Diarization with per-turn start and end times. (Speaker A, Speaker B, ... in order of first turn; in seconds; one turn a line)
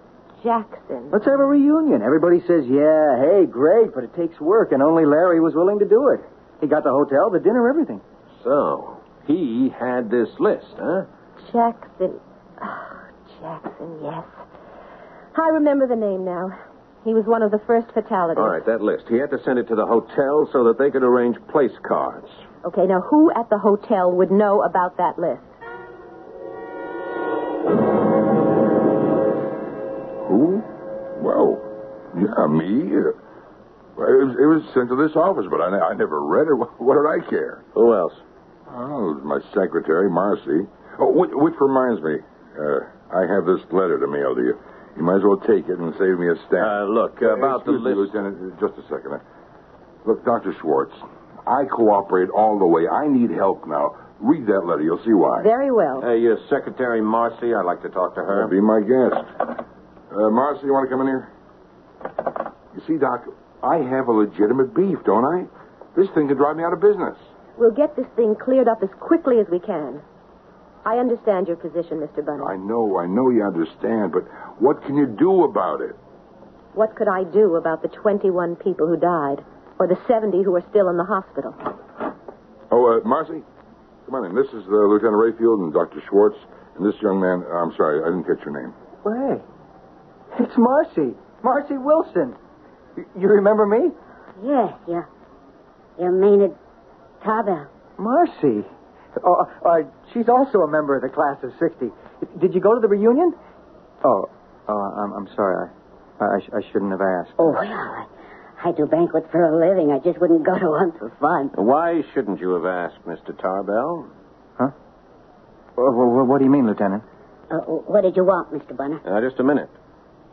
Speaker A: 0.4-1.3
Speaker B: 1.1-8.0
Speaker C: 8.4-11.1
Speaker A: 11.4-14.4
Speaker A: 15.3-18.6
Speaker C: 18.4-22.4
Speaker A: 22.6-25.5
Speaker D: 30.3-33.2
Speaker D: 34.0-37.6
Speaker C: 37.8-38.2
Speaker D: 38.7-49.2
Speaker C: 46.6-48.1
Speaker D: 50.0-55.5
Speaker A: 55.4-56.1
Speaker C: 56.0-58.5
Speaker D: 58.3-59.3
Speaker D: 60.1-61.3
Speaker D: 62.7-67.2
Speaker A: 67.6-70.0
Speaker A: 70.8-72.5
Speaker D: 72.4-76.0
Speaker A: 76.7-81.6
Speaker D: 82.7-83.5
Speaker D: 84.1-88.8
Speaker B: 89.0-89.5
Speaker B: 90.3-92.4
Speaker B: 93.0-94.0
Speaker E: 94.4-95.1
Speaker E: 96.0-96.6
Speaker E: 97.2-97.7
Speaker B: 98.0-103.4
Speaker B: 104.0-107.5
Speaker E: 107.4-111.5
Speaker C: 111.5-114.1
Speaker B: 115.8-117.0
Speaker E: 117.5-119.0
Speaker C: 119.0-119.7